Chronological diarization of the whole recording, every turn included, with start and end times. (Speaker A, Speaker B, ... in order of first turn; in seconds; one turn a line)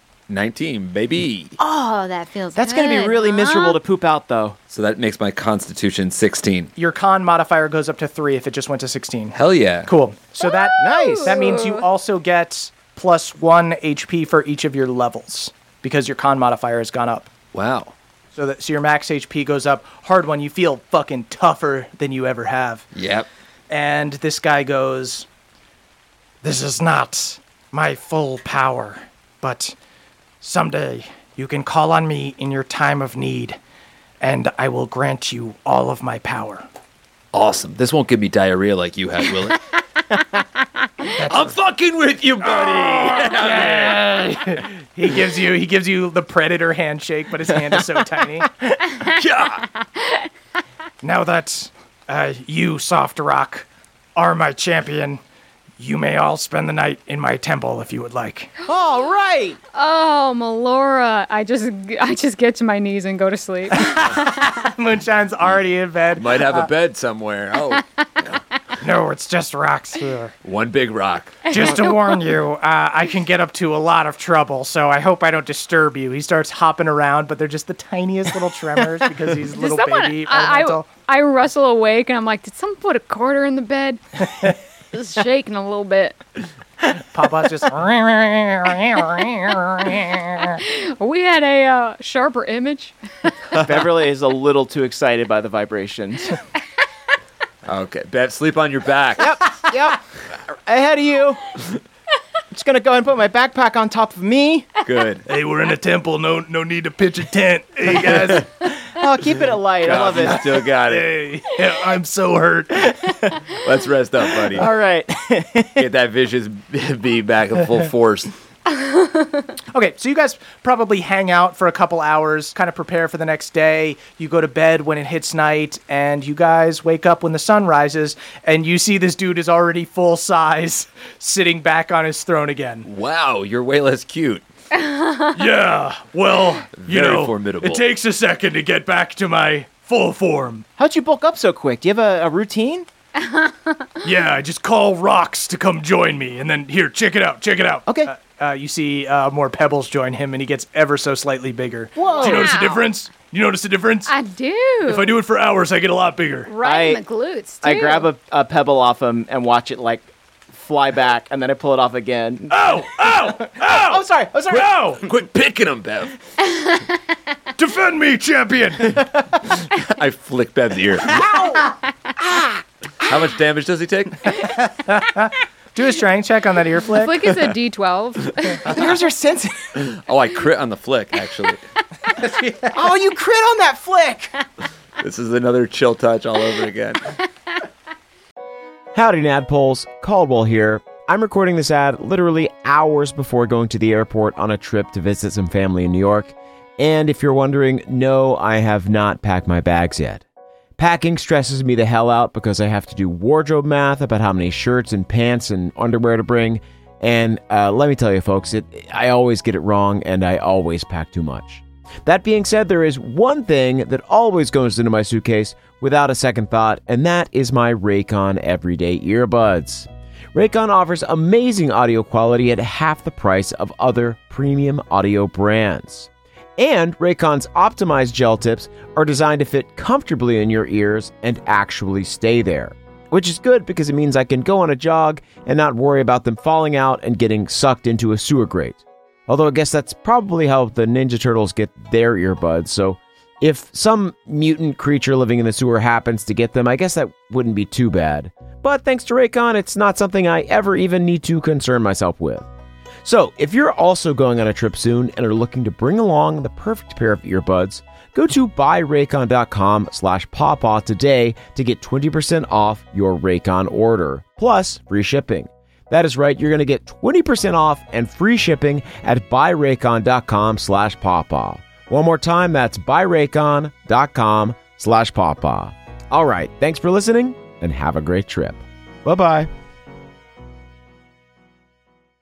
Speaker A: 0.3-1.6
Speaker B: 1.6-3.8
Speaker C: 2.6-4.6
Speaker A: 4.7-6.7
Speaker D: 6.8-17.3
Speaker A: 9.3-9.9
Speaker B: 10.4-11.8
Speaker C: 10.8-11.5
Speaker A: 17.5-17.9
Speaker D: 18.3-22.9
Speaker A: 22.9-23.3
Speaker D: 23.7-25.3
Speaker D: 26.4-29.8
Speaker D: 30.4-33.6
Speaker D: 34.2-36.7
Speaker A: 37.3-39.6
Speaker D: 41.2-41.5
Speaker A: 41.2-44.0
Speaker D: 42.4-48.5
Speaker B: 48.9-49.2
Speaker A: 49.0-49.6
Speaker B: 49.8-50.3
Speaker D: 51.0-55.2
Speaker D: 55.8-58.5
Speaker C: 58.6-59.6
Speaker B: 59.7-64.3
Speaker D: 63.8-66.7
Speaker A: 66.2-68.4
Speaker D: 68.8-70.3
Speaker A: 70.4-71.5
Speaker B: 71.5-72.0
Speaker D: 71.5-80.9
Speaker B: 79.5-84.0
Speaker B: 84.9-86.2
Speaker D: 86.9-90.5
Speaker B: 90.5-93.3
Speaker C: 93.6-96.4
Speaker A: 97.7-99.4
Speaker C: 99.2-100.0
Speaker C: 100.7-101.4
Speaker C: 102.5-104.8
Speaker A: 104.8-105.2
Speaker D: 105.3-108.7
Speaker C: 108.8-110.5
Speaker A: 109.8-111.2
Speaker D: 110.0-113.1
Speaker C: 112.9-113.3
Speaker A: 113.5-114.7
Speaker C: 114.4-115.8
Speaker A: 115.8-118.3
Speaker B: 118.8-119.3
Speaker D: 119.7-132.9
Speaker A: 132.8-134.4
Speaker B: 134.8-135.3
Speaker D: 135.3-140.7
Speaker A: 136.8-137.8
Speaker C: 140.8-142.9
Speaker B: 143.2-143.9
Speaker D: 144.0-154.1
Speaker C: 147.9-148.1
Speaker C: 151.9-152.7
Speaker B: 152.1-152.9
Speaker B: 154.1-155.2
Speaker D: 154.9-156.5
Speaker B: 156.5-158.1
Speaker C: 156.6-157.0
Speaker C: 157.6-162.6
Speaker D: 162.5-165.1
Speaker C: 163.5-164.7
Speaker A: 165.0-166.1
Speaker B: 166.6-166.9
Speaker D: 167.6-169.2
Speaker A: 169.6-171.2
Speaker C: 171.1-171.7
Speaker A: 173.0-174.4
Speaker D: 174.3-177.3
Speaker B: 176.9-178.6
Speaker C: 178.7-179.7
Speaker A: 179.8-181.6
Speaker D: 182.2-182.8
Speaker C: 182.7-184.3
Speaker A: 185.0-187.1
Speaker E: 188.9-200.2
Speaker E: 200.8-252.5
Speaker E: 253.0-279.5